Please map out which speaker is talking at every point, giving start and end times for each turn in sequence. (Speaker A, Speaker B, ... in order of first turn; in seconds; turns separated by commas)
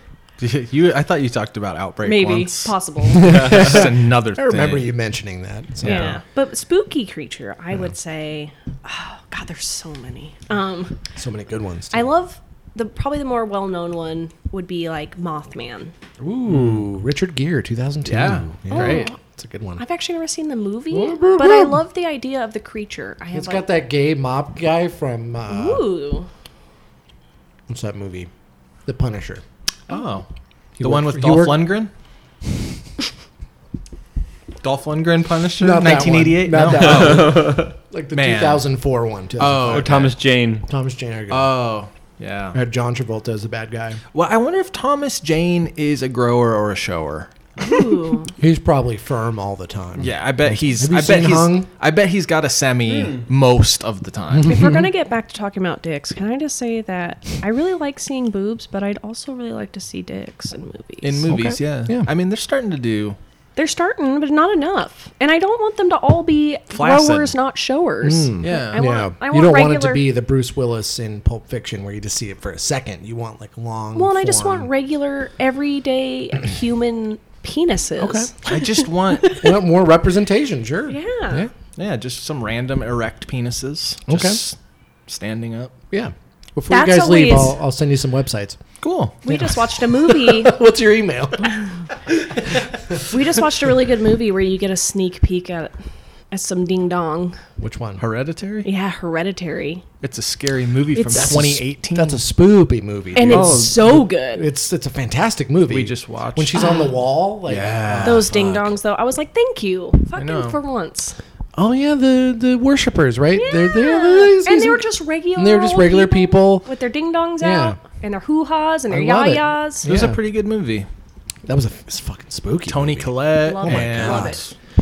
Speaker A: 0.4-4.9, Speaker B: 2.0-3.5, Speaker C: 3.2-6.2, Speaker A: 5.8-6.2, Speaker B: 5.8-10.9, Speaker C: 11.2-12.1, Speaker B: 11.9-15.9, Speaker C: 16.2-19.8, Speaker A: 16.5-16.8, Speaker A: 18.0-19.1, Speaker B: 18.7-19.2, Speaker B: 19.8-23.6, Speaker C: 20.9-21.8, Speaker C: 23.3-25.9, Speaker B: 25.5-26.3, Speaker C: 27.7-28.3, Speaker C: 28.9-29.4, Speaker A: 29.9-30.2, Speaker C: 30.8-31.8, Speaker A: 30.8-31.9, Speaker A: 34.6-38.6, Speaker C: 35.6-39.9, Speaker D: 36.7-37.7, Speaker A: 39.4-40.2, Speaker D: 39.7-40.7, Speaker C: 40.7-41.5, Speaker A: 41.3-42.6, Speaker C: 42.5-44.0, Speaker A: 44.1-47.3, Speaker B: 47.6-48.3, Speaker C: 48.4-51.7, Speaker A: 50.0-54.6, Speaker D: 52.9-53.2, Speaker C: 54.3-54.8, Speaker B: 54.4-61.4, Speaker A: 61.0-63.2, Speaker C: 61.3-62.1, Speaker B: 63.5-70.1, Speaker A: 66.7-67.3, Speaker C: 68.0-74.7, Speaker A: 68.4-68.8, Speaker B: 73.9-79.5, Speaker C: 78.0-78.3, Speaker A: 78.4-79.4, Speaker C: 79.3-81.5, Speaker B: 80.9-81.5, Speaker A: 81.8-85.7, Speaker C: 84.1-84.4, Speaker C: 85.9-88.6, Speaker B: 86.7-87.5, Speaker A: 88.8-89.2, Speaker B: 89.2-90.5, Speaker C: 89.2-91.6, Speaker C: 92.5-93.1, Speaker B: 93.1-95.7, Speaker B: 96.3-97.4, Speaker C: 97.6-98.0, Speaker A: 98.0-98.7, Speaker B: 98.6-99.8, Speaker A: 100.0-102.2, Speaker B: 101.0-101.4, Speaker C: 101.0-108.6, Speaker B: 103.1-104.5, Speaker A: 105.7-106.8, Speaker B: 106.5-106.8, Speaker A: 107.4-108.6, Speaker B: 108.0-111.2, Speaker A: 110.2-110.6, Speaker C: 111.5-116.7, Speaker B: 113.3-119.9, Speaker C: 117.4-117.8, Speaker C: 118.9-120.2, Speaker A: 119.8-120.9, Speaker C: 121.4-124.4, Speaker A: 122.7-124.5, Speaker B: 123.4-124.4